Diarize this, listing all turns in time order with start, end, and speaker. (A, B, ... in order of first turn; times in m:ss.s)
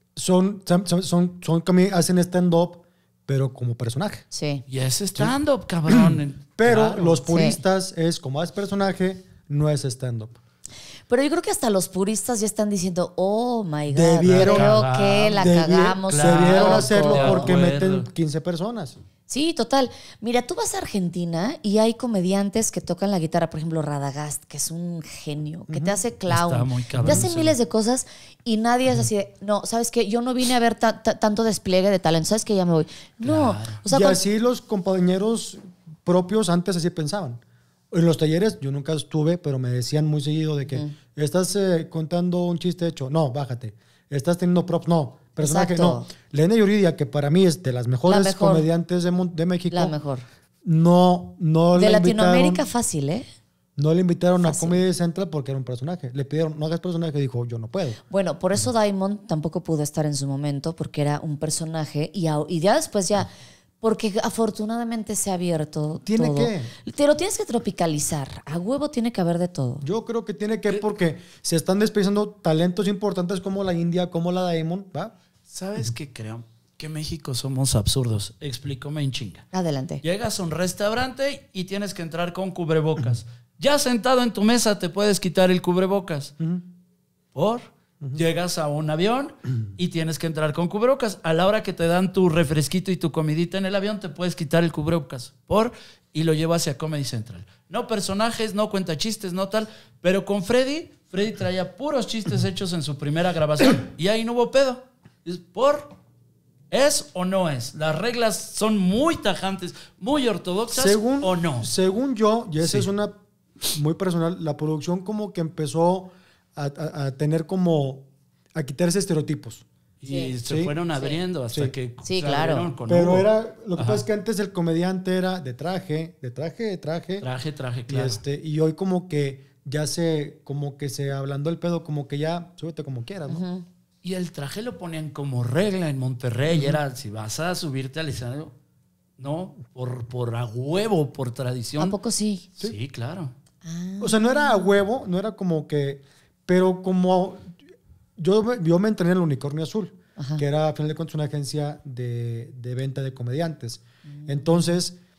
0:00.2-0:04.3 A
0:04.3-0:04.6 B
0:04.7-0:07.3 C
0:05.9-0:10.4 A
0:07.3-0:07.6 B
0:11.1-0:17.5 B
0:13.9-0:14.8 A
0:14.3-0:15.5 C
0:15.3-0:19.0 A
0:16.1-0:18.1 C
0:19.3-0:34.2 B
0:25.7-0:26.0 A
0:26.3-0:27.6 C
0:27.0-0:27.3 A
0:33.2-0:33.8 C
0:33.9-0:50.0 A
0:45.4-0:46.1 B
0:48.1-0:48.7 B
0:49.7-0:50.2 B
0:50.6-0:52.6 A
0:51.8-0:53.3 B
0:53.8-0:58.0 A
0:54.4-0:54.8 B
0:58.1-1:03.3 B
1:03.8-1:09.9 B
1:06.1-1:06.7 A
1:09.8-1:15.1 A
1:15.5-1:19.4 C
1:19.5-1:20.0 B
1:20.0-1:26.3 C
1:27.4-1:45.9 C
1:46.7-1:51.7 C
1:50.7-1:59.7 A
1:52.6-1:52.9 C
2:00.0-2:04.0 C
2:00.1-2:00.3 B
2:00.5-2:00.7 A
2:02.0-2:02.7 B
2:02.9-2:07.3 A
2:07.2-2:08.2 C
2:07.9-2:13.4 A
2:13.3-2:13.6 B
2:14.0-2:18.5 C
2:16.5-2:16.8 A
2:19.2-2:22.0 C
2:21.8-2:22.5 B
2:22.6-2:23.3 C
2:23.6-2:24.7 B
2:24.0-2:27.6 A
2:28.2-2:35.0 A
2:30.2-2:30.4 B
2:34.1-2:34.5 B